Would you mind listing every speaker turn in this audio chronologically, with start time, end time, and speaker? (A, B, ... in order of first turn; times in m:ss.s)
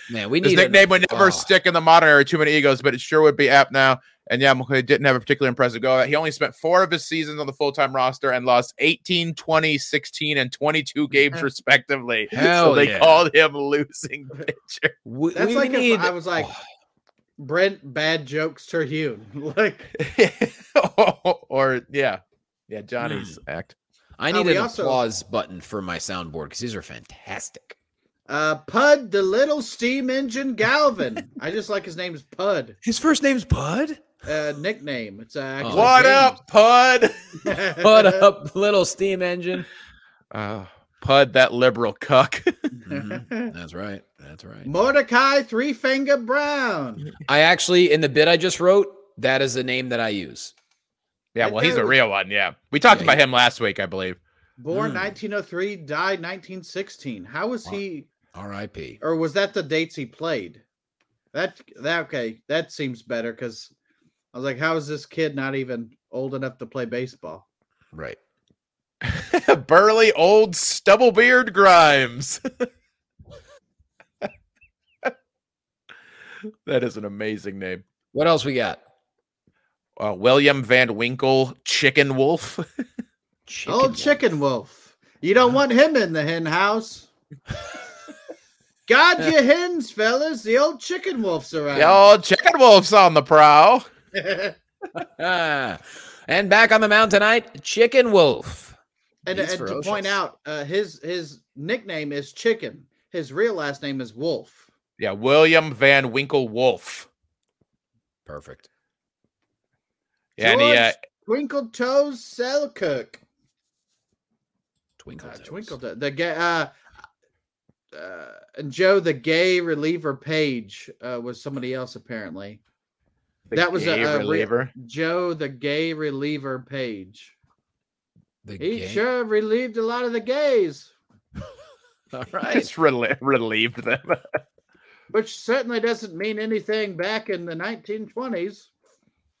0:00.1-0:01.5 A
0:00.4-0:15.0 B
0:12.3-0:13.2 A
0:15.0-0:16.6 A
0:15.3-0:16.5 C
0:17.4-0:19.9 C
0:20.0-0:23.7 B
0:23.0-0:23.4 A
0:24.2-0:27.8 A
0:24.3-0:25.0 C
0:28.3-0:32.8 C
0:32.8-0:34.0 A
0:34.2-0:36.4 C
0:35.6-0:36.0 A
0:35.7-0:37.4 B
0:37.4-0:38.2 C
0:37.8-0:39.7 A
0:40.3-0:42.7 B
0:42.8-0:44.7 A
0:42.9-0:43.5 C
0:44.6-0:47.1 C
0:47.2-0:50.5 A
0:51.3-0:54.2 B
0:51.4-0:52.0 C
0:52.9-0:53.2 A
0:54.6-0:58.1 C
0:54.7-0:55.1 A
0:58.3-0:59.0 A
0:59.0-1:00.6 C
1:01.3-1:03.7 C
1:04.3-1:07.4 C
1:07.9-1:08.2 A
1:09.0-1:12.4 B
1:16.6-1:17.8 B
1:18.1-1:18.8 A
1:20.0-1:22.6 B
1:23.5-1:24.2 A
1:23.7-1:27.1 C
1:28.9-1:32.1 C
1:31.7-1:33.9 B
1:34.1-1:34.5 C
1:34.9-1:38.8 A
1:39.2-1:44.6 C
1:39.3-1:40.2 A
1:45.0-1:47.1 B
1:48.2-1:48.7 A
1:50.4-1:50.9 B
1:50.4-1:53.2 C
1:55.0-1:55.7 A
1:55.2-1:56.7 C
1:57.9-2:02.6 C
2:03.5-2:04.7 B
2:03.5-2:07.3 C
2:08.4-2:09.0 A
2:08.6-2:10.9 C
2:12.1-2:12.7 A
2:12.5-2:14.2 B
2:15.1-2:18.7 C